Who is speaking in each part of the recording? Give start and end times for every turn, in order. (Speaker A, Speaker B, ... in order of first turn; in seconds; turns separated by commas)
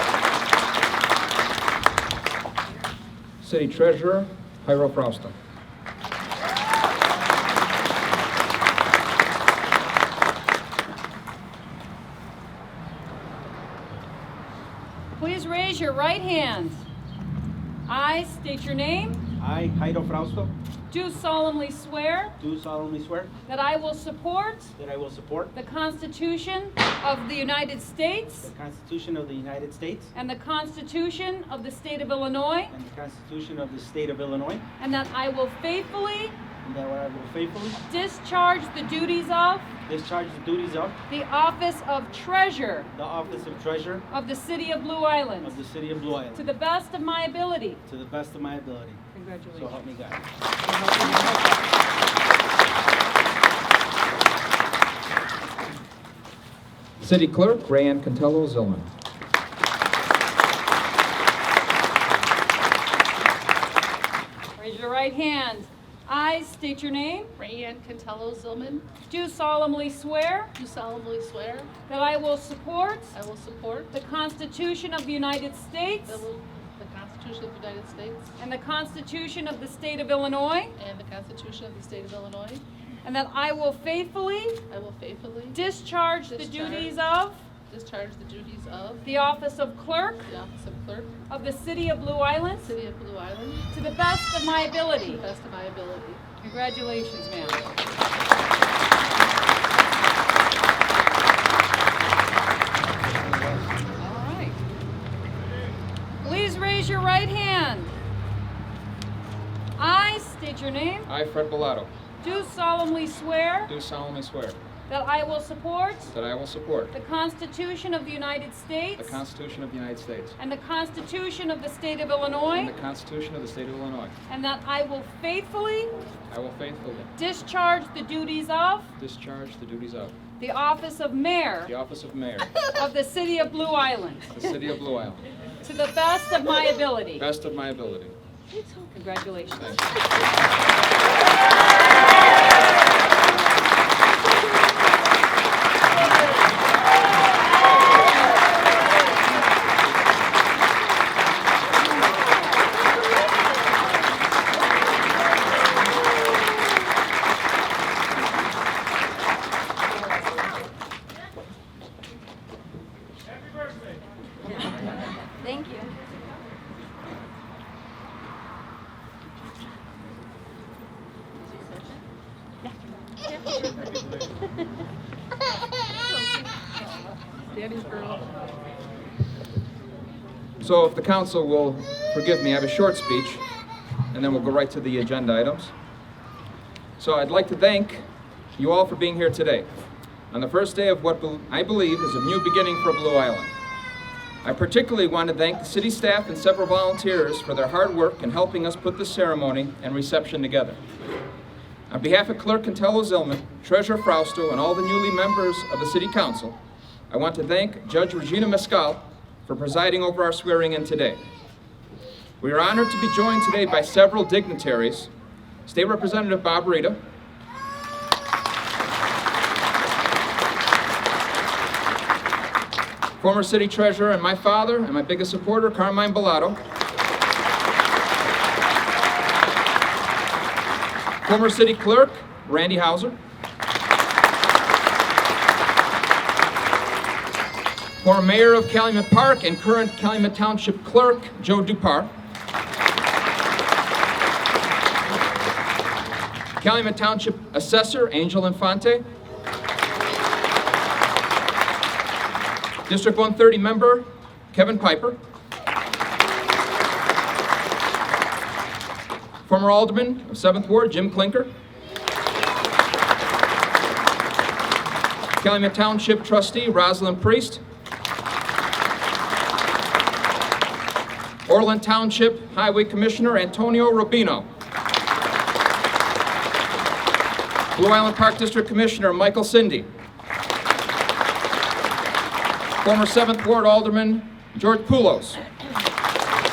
Speaker A: 3.4-5.3, Speaker B: 15.2-16.8, Speaker B: 17.9-19.2, Speaker C: 19.4-20.5, Speaker B: 20.9-22.4, Speaker C: 22.4-23.3, Speaker B: 23.5-24.7, Speaker C: 24.8-25.5, Speaker B: 25.5-28.5, Speaker C: 28.4-30.1, Speaker B: 30.1-32.7, Speaker C: 32.7-34.6, Speaker B: 34.8-36.4, Speaker C: 36.6-37.8, Speaker B: 37.9-39.7, Speaker C: 39.9-41.0, Speaker B: 41.1-42.9, Speaker C: 42.9-44.0, Speaker B: 44.1-45.6, Speaker C: 45.4-46.5, Speaker B: 46.3-47.8, Speaker C: 47.9-49.0, Speaker B: 49.1-49.8, Speaker C: 49.5-50.2, Speaker B: 50.6-51.6, Speaker A: 57.0-58.9, Speaker B: 64.6-67.3, Speaker D: 67.4-68.9, Speaker B: 69.1-70.5, Speaker D: 70.6-71.7, Speaker B: 71.9-73.2, Speaker D: 73.1-73.9, Speaker B: 73.9-76.2, Speaker D: 76.1-78.3, Speaker B: 78.4-80.7, Speaker D: 80.8-82.6, Speaker B: 83.0-84.6, Speaker D: 84.7-85.6, Speaker B: 85.5-87.5, Speaker D: 86.3-87.0, Speaker D: 87.7-89.0, Speaker B: 89.0-90.3, Speaker D: 90.3-91.1, Speaker B: 91.3-92.8, Speaker D: 92.6-93.7, Speaker B: 93.7-95.2, Speaker D: 95.0-96.2, Speaker B: 96.4-97.6, Speaker C: 103.0-103.8, Speaker B: 104.0-104.6, Speaker B: 106.2-107.9, Speaker B: 109.8-111.1, Speaker A: 111.1-111.9, Speaker B: 112.2-113.7, Speaker A: 113.7-114.6, Speaker B: 114.9-116.1, Speaker A: 116.1-116.9, Speaker B: 116.9-119.2, Speaker A: 119.0-120.4, Speaker B: 120.4-122.7, Speaker A: 122.5-124.1, Speaker B: 124.3-125.9, Speaker A: 126.3-127.1, Speaker B: 127.2-128.9, Speaker A: 129.0-130.2, Speaker B: 130.4-131.7, Speaker A: 131.7-132.5, Speaker B: 132.7-134.4, Speaker A: 134.3-135.2, Speaker B: 135.6-137.3, Speaker A: 137.2-138.2, Speaker B: 138.5-139.9, Speaker A: 139.6-139.9, Speaker B: 165.4-165.9, Speaker D: 177.5-178.3, Speaker A: 180.6-183.4, Speaker A: 184.1-185.7, Speaker A: 187.0-188.0, Speaker A: 188.6-189.7, Speaker A: 190.3-193.5, Speaker A: 194.4-200.8, Speaker A: 201.9-206.6, Speaker A: 207.1-211.2, Speaker A: 212.4-215.1, Speaker A: 215.7-217.0, Speaker A: 223.2-226.6, Speaker A: 231.2-233.2, Speaker A: 238.0-242.1, Speaker A: 246.6-249.1, Speaker A: 252.9-255.2, Speaker A: 259.5-261.5, Speaker A: 265.4-267.6, Speaker A: 271.5-274.5, Speaker A: 277.7-279.9, Speaker A: 282.8-285.4